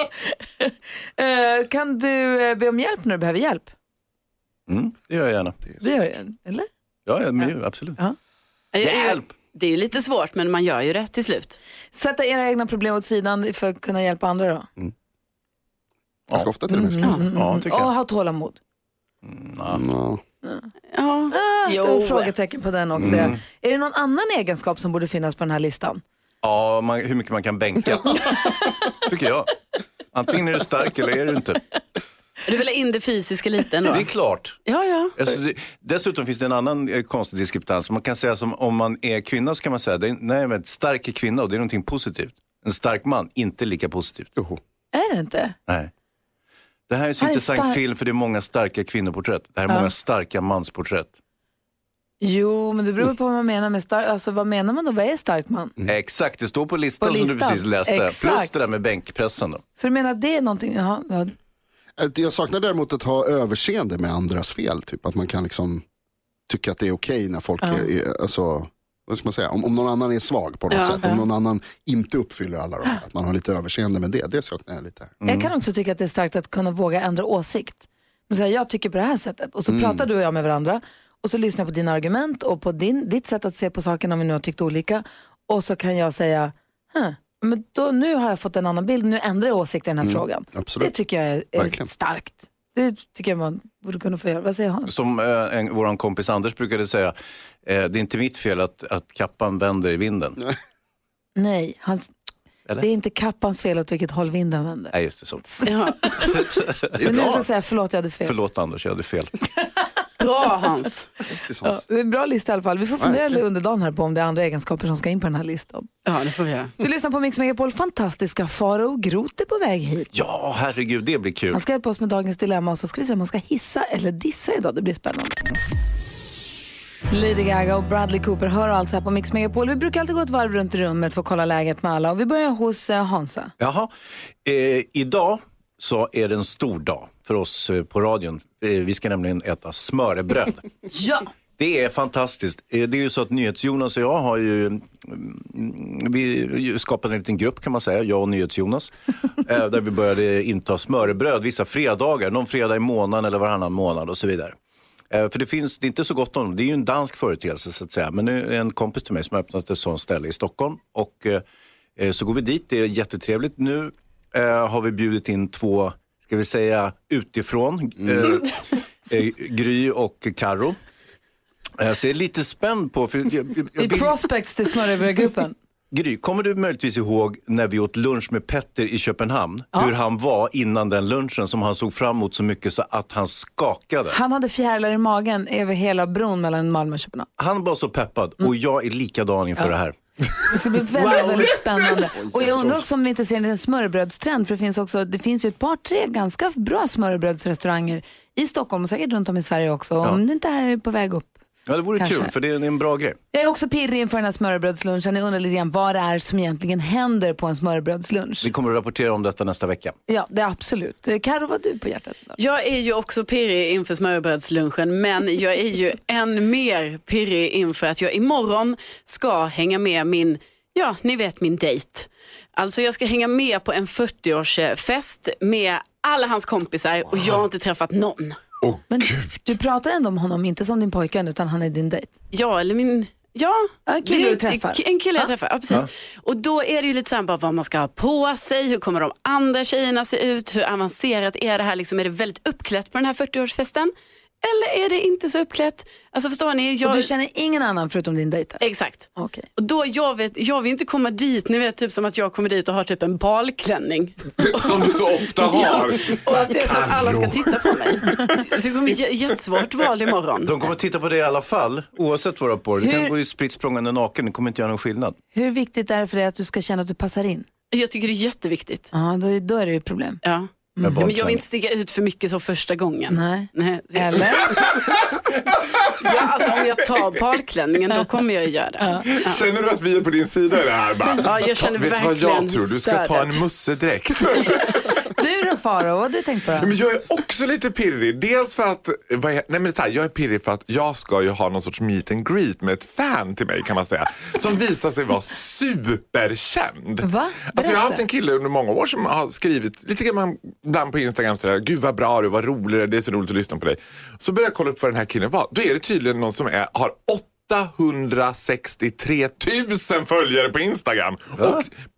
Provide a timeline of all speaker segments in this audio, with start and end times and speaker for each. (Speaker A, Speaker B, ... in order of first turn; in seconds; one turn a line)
Speaker A: 0.6-3.7
Speaker B: 4.7-5.6
Speaker A: 5.8-6.7
Speaker B: 7.1-8.0
Speaker C: 8.7-11.6
Speaker B: 8.8-9.4
Speaker A: 11.9-14.7
Speaker B: 16.3-16.5
Speaker D: 16.3-17.2
Speaker A: 16.7-18.6
Speaker B: 17.2-17.9
Speaker B: 19.2-19.8
Speaker D: 19.7-20.2
Speaker C: 20.9-22.3
Speaker A: 21.3-26.0
Speaker D: 23.0-23.3
Speaker B: 23.0-23.4
Speaker B: 26.4-29.6
Speaker B: 30.1-31.6
Speaker C: 32.5-34.1
Speaker B: 33.8-34.6
Speaker C: 34.6-35.2
Speaker B: 35.2-44.3
Speaker A: 44.9-45.6
Speaker B: 46.9-51.2
Speaker A: 47.2-47.8
Speaker A: 52.2-55.8
Speaker B: 55.9-59.6
Speaker A: 57.0-58.5
Speaker A: 59.8-61.3
Speaker D: 62.0-65.8
Speaker D: 66.5-75.2
Speaker A: 67.6-67.9
Speaker C: 70.7-71.0
Speaker B: 75.2-75.5
Speaker A: 75.2-94.9
Speaker D: 79.7-80.1
Speaker D: 90.0-90.9
Speaker D: 91.6-91.9
Speaker B: 94.9-100.4
Speaker A: 101.4-102.1
Speaker A: 102.8-105.0
Speaker B: 104.9-105.6
Speaker A: 105.5-106.4
Speaker C: 105.7-106.2
Speaker B: 106.4-107.0
Speaker D: 106.9-107.5
Speaker A: 107.0-108.3
Speaker B: 108.2-109.3
Speaker C: 110.2-111.0
Speaker D: 111.3-111.8
Speaker A: 111.6-115.9
Speaker D: 113.0-113.2
Speaker C: 116.1-116.7
Speaker A: 116.8-120.1
Speaker B: 120.1-121.6
Speaker A: 121.5-125.4
Speaker A: 127.1-133.5
Speaker B: 133.6-133.9
Speaker B: 134.4-140.7
Speaker A: 140.9-141.3
Speaker B: 141.6-154.6
Speaker B: 155.1-161.4
Speaker B: 162.0-170.8
Speaker D: 168.0-168.3
Speaker B: 171.8-174.2
Speaker A: 173.8-175.6
Speaker B: 175.9-184.2
Speaker A: 184.1-187.3
Speaker B: 187.4-190.0
Speaker A: 190.5-201.3
Speaker D: 192.1-192.9
Speaker B: 201.7-203.2
Speaker A: 202.0-202.3
Speaker A: 203.3-208.5
Speaker B: 208.4-210.0
Speaker A: 210.1-212.4
Speaker C: 212.4-228.4
Speaker E: 228.6-229.4
Speaker A: 228.9-232.1
Speaker C: 232.3-247.1
Speaker A: 233.9-235.3
Speaker A: 246.8-249.5
Speaker C: 248.6-254.9
Speaker E: 254.4-258.4
Speaker C: 255.4-260.7
Speaker B: 260.4-265.2
Speaker A: 262.8-263.1
Speaker A: 265.3-267.5
Speaker C: 267.7-268.9
Speaker A: 268.9-270.2
Speaker C: 270.2-274.7
Speaker A: 270.8-271.1
Speaker B: 270.8-271.4
Speaker A: 273.1-274.7
Speaker E: 274.5-277.2
Speaker C: 276.0-279.4
Speaker A: 278.8-279.1
Speaker E: 279.1-285.0
Speaker C: 281.1-283.4
Speaker A: 285.2-286.7
Speaker E: 286.6-311.7
Speaker A: 297.0-298.0
Speaker B: 311.4-311.6